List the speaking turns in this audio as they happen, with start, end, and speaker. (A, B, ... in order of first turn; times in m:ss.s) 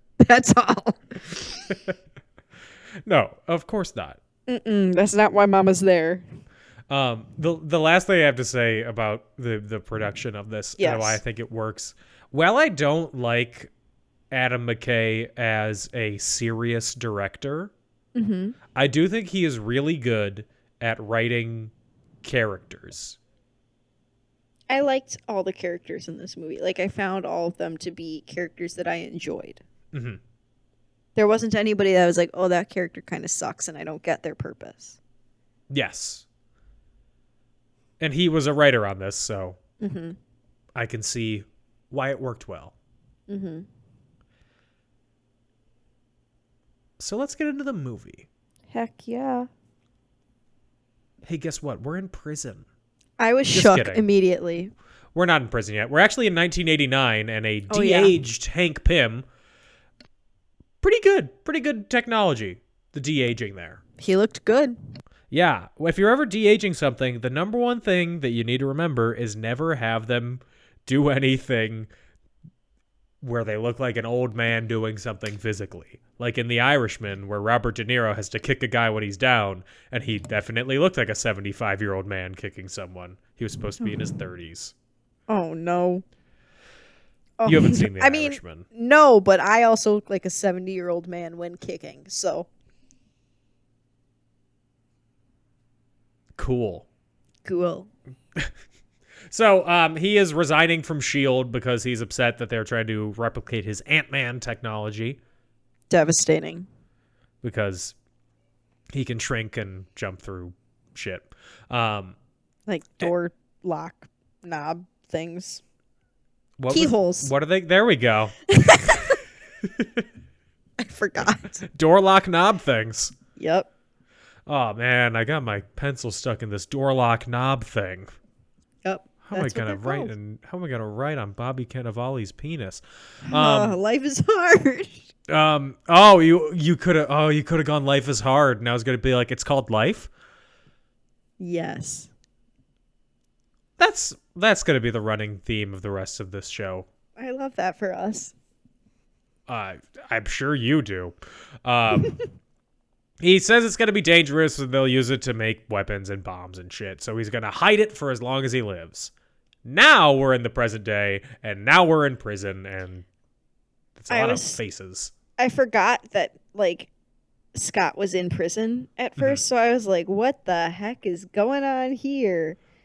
0:00.2-0:01.7 A
0:03.0-0:04.2 B
0:04.5-0:06.2 A
0:06.9-0:13.7 B
0:10.8-0:11.2 A
0:14.3-0:17.7 B
0:18.1-0:18.6 A
0:18.7-0:23.2 B
0:24.7-0:29.6 A
0:29.9-0:30.2 B
0:31.2-0:35.0 A
0:35.7-0:36.2 B
0:38.0-0:39.6 B
0:39.8-0:40.2 A
0:40.7-0:42.7 B
0:43.3-0:43.7 A
0:47.0-0:48.3 B
0:48.7-0:49.5 A
0:51.2-0:52.6 B
0:53.2-0:54.7 A
0:53.5-0:54.0 B
0:55.1-0:59.2 B
0:57.7-0:58.2 A
1:00.8-1:03.8 B
1:04.0-1:04.8 A
1:05.3-1:11.9 B
1:13.2-1:24.7 B
1:25.3-1:26.0 A
1:27.4-1:32.5 A
1:27.4-1:28.6 B
1:36.4-1:36.8 B
1:37.4-1:37.9 A
1:39.3-1:45.2 B
1:45.9-1:46.7 A
1:47.4-1:47.9 B
1:48.9-1:52.2 B
1:52.7-1:55.6 A
1:56.6-1:58.4 B
1:56.7-1:57.3 A
1:58.5-1:59.2 A
1:59.6-2:00.0 B
2:00.8-2:01.6 A
2:01.6-2:03.1 B
2:03.4-2:03.7 A
2:04.4-2:08.1 B
2:08.8-2:10.1 A
2:09.2-2:13.8 B
2:13.2-2:15.1 A
2:15.3-2:20.1 B
2:21.4-2:22.1 A
2:23.8-2:26.9 B
2:27.2-2:28.3 A
2:29.5-2:32.1 B
2:33.2-2:39.1 B
2:39.6-2:43.0 B
2:44.0-2:45.1 B
2:44.1-2:44.6 A
2:45.4-2:46.9 A
2:47.5-2:52.6 A